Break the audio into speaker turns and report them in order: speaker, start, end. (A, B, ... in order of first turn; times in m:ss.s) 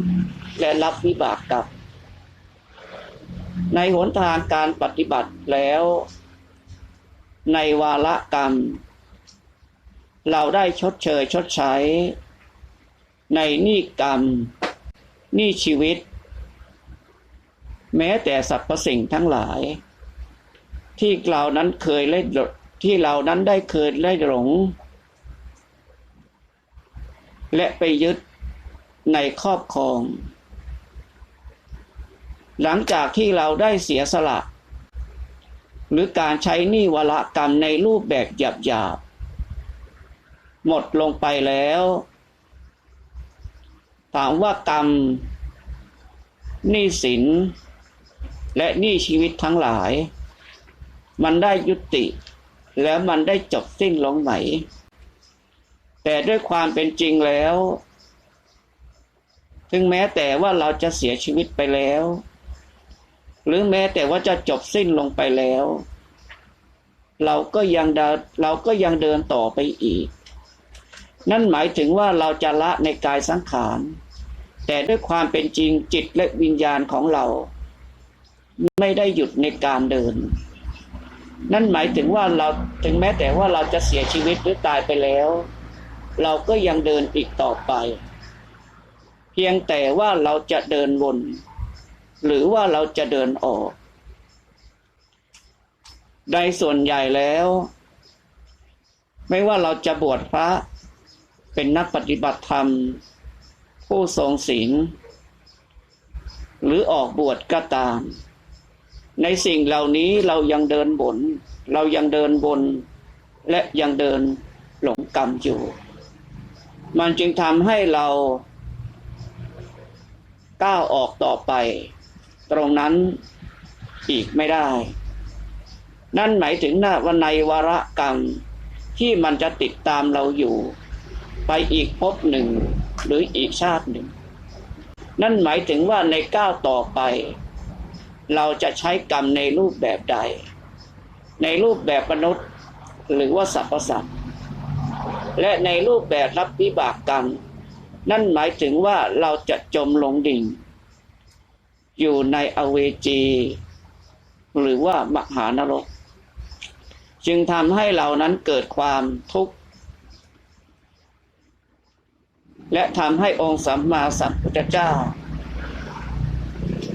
0:00.6-0:01.7 A
0:03.7-0:06.1 A
0:07.4-0:08.8 A
0:10.2-0:12.1 A
0:13.3-0:14.5 A
0:15.3-0:16.0 A
0:17.9-0:19.8 A
0:21.0-0:24.7 A
0:27.5-0:28.2 A
0:29.1-0:30.2 A
0:32.6-0:34.5 A
0:35.9-0:39.0 A
0:40.6-0:42.0 A
0:44.1-0:45.3 A
0:46.6-0:47.5 A
0:48.5-0:50.1 A
0:51.2-0:52.1 A
0:52.8-0:54.6 A
0:56.0-0:57.8 A
0:59.7-1:02.2 A
1:03.4-1:05.8 A
1:07.2-1:10.1 A
1:11.3-1:14.0 A
1:14.6-1:17.5 A
1:18.6-1:20.3 A
1:21.5-1:25.5 A
1:26.2-1:28.0 A
1:29.3-1:31.4 A
1:32.2-1:33.7 A
1:36.3-1:37.7 A
1:39.3-1:40.6 A
1:41.5-1:43.0 A
1:43.9-1:44.9 A
1:46.6-1:48.1 A
1:49.2-1:52.8 A
1:53.5-1:55.7 A
1:56.9-1:58.4 A
2:00.6-2:01.9 A
2:02.5-2:03.2 A
2:04.1-2:04.9 A
2:06.1-2:08.4 A
2:09.0-2:10.7 A
2:11.5-2:14.1 A
2:15.2-2:17.4 A
2:18.3-2:20.4 A
2:21.4-2:22.4 A
2:23.1-2:24.1 A
2:25.4-2:27.4 A
2:28.0-2:30.6 A
2:32.0-2:33.6 A
2:34.5-2:35.9 A
2:37.2-2:39.5 A
2:42.7-2:45.2 A